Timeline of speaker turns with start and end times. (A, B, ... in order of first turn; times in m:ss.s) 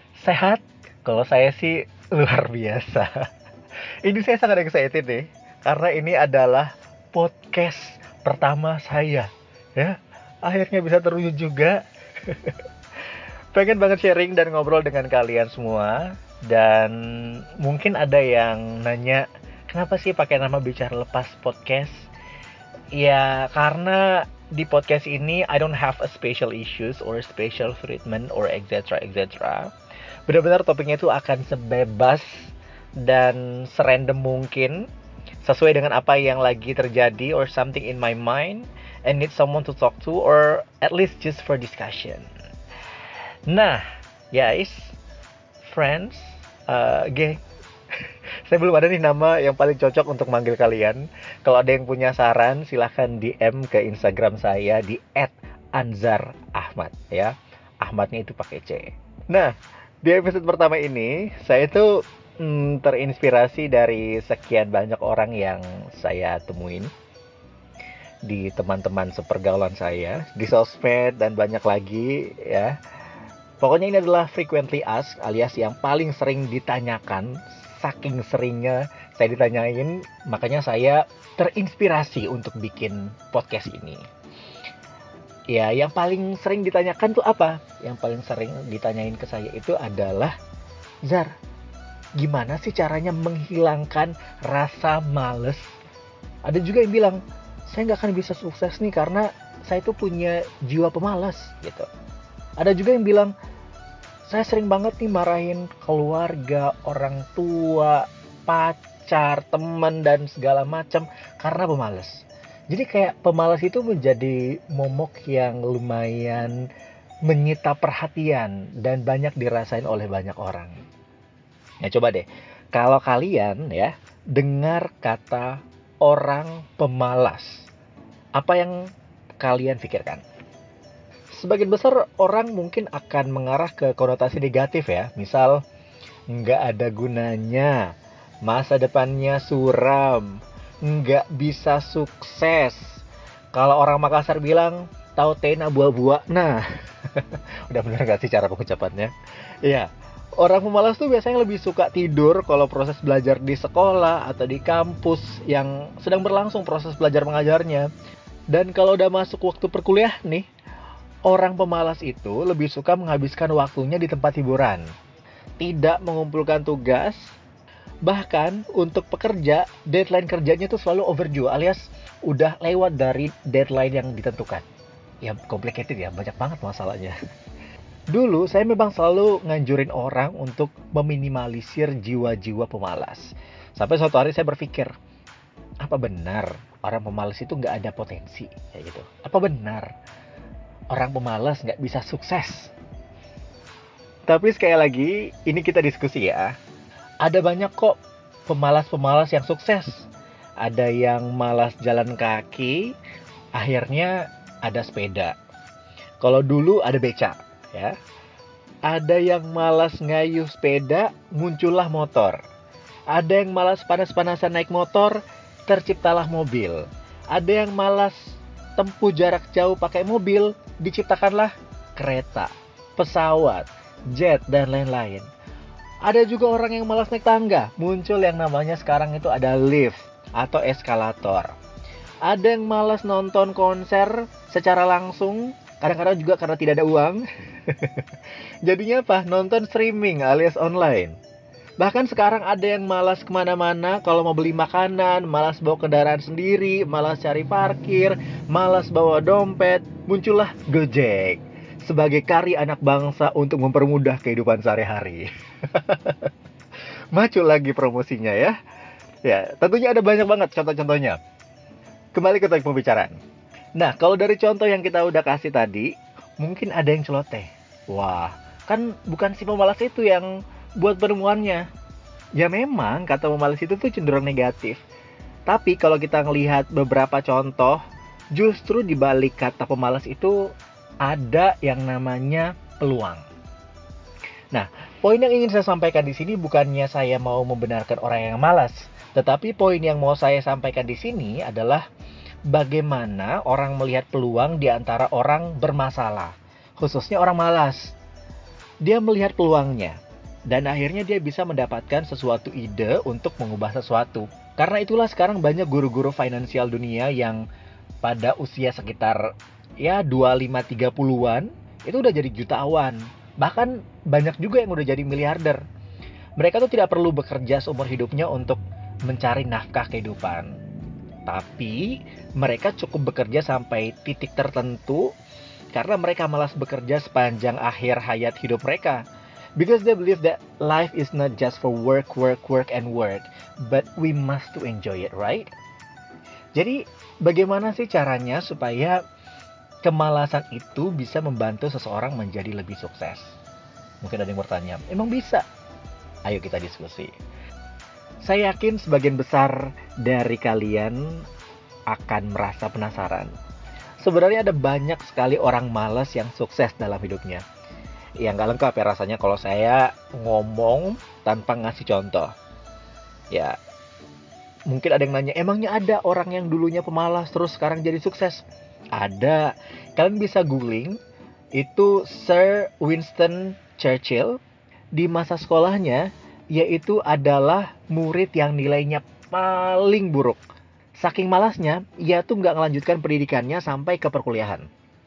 0:00.2-0:03.1 A
0:04.0-0:12.6 A
0:13.5-0:22.1 A
0:22.9-0:29.7 A
0:30.3-0:34.9 A
0:35.4-0:42.3 A
0:43.5-0:45.0 A
0:45.6-0:47.4 A
0:48.0-0:59.5 A
1:00.0-1:06.9 A
1:08.2-1:12.8 A
1:13.6-1:24.0 A
1:25.5-1:30.3 A
1:31.0-1:31.3 A
1:32.2-1:35.7 A
1:36.4-1:41.9 A
1:42.6-1:43.3 A
1:44.3-1:56.6 A
1:57.3-2:00.8 A
2:01.8-2:07.7 A
2:08.4-2:08.9 A
2:09.4-2:10.2 A
2:11.3-2:15.6 A
2:16.3-2:17.9 A
2:18.4-2:23.0 A
2:23.5-2:29.1 A
2:29.6-2:37.9 A
2:38.5-2:40.4 A
2:41.3-2:44.8 A
2:45.6-2:47.4 A
2:48.0-2:54.6 A
2:55.2-2:57.2 A
2:58.1-3:04.9 A
3:05.8-3:09.9 A
3:10.9-3:12.7 A
3:14.3-3:16.5 A
3:17.2-3:20.1 A
3:20.6-3:22.9 A
3:23.6-3:25.3 A
3:26.2-3:28.0 A
3:28.9-3:32.4 A
3:33.1-3:45.3 A
3:46.0-3:51.5 A
3:52.3-3:58.1 A
3:58.6-4:01.2 A
4:01.8-4:16.3 A
4:17.1-4:18.6 A
4:19.2-4:21.2 A
4:22.1-4:23.2 A
4:23.8-4:31.6 A
4:32.4-4:34.8 A
4:35.5-4:37.8 A
4:38.4-4:40.4 A
4:41.0-4:43.2 A
4:44.5-4:51.8 A
4:52.5-4:58.0 A
4:58.8-5:07.4 A
5:08.0-5:09.2 A
5:09.8-5:15.6 A
5:16.4-5:20.5 A
5:21.2-5:25.1 A
5:25.7-5:29.0 A
5:29.6-5:35.5 A
5:36.6-5:39.0 A
5:39.8-5:43.4 A
5:44.0-5:45.4 A
5:46.2-5:47.1 A
5:48.2-5:51.2 A
5:51.9-5:53.3 A
5:54.0-5:57.4 A
5:58.2-6:02.3 A
6:04.7-6:08.4 A
6:08.9-6:11.0 A
6:11.6-6:14.4 A
6:15.0-6:20.4 A
6:21.0-6:24.7 A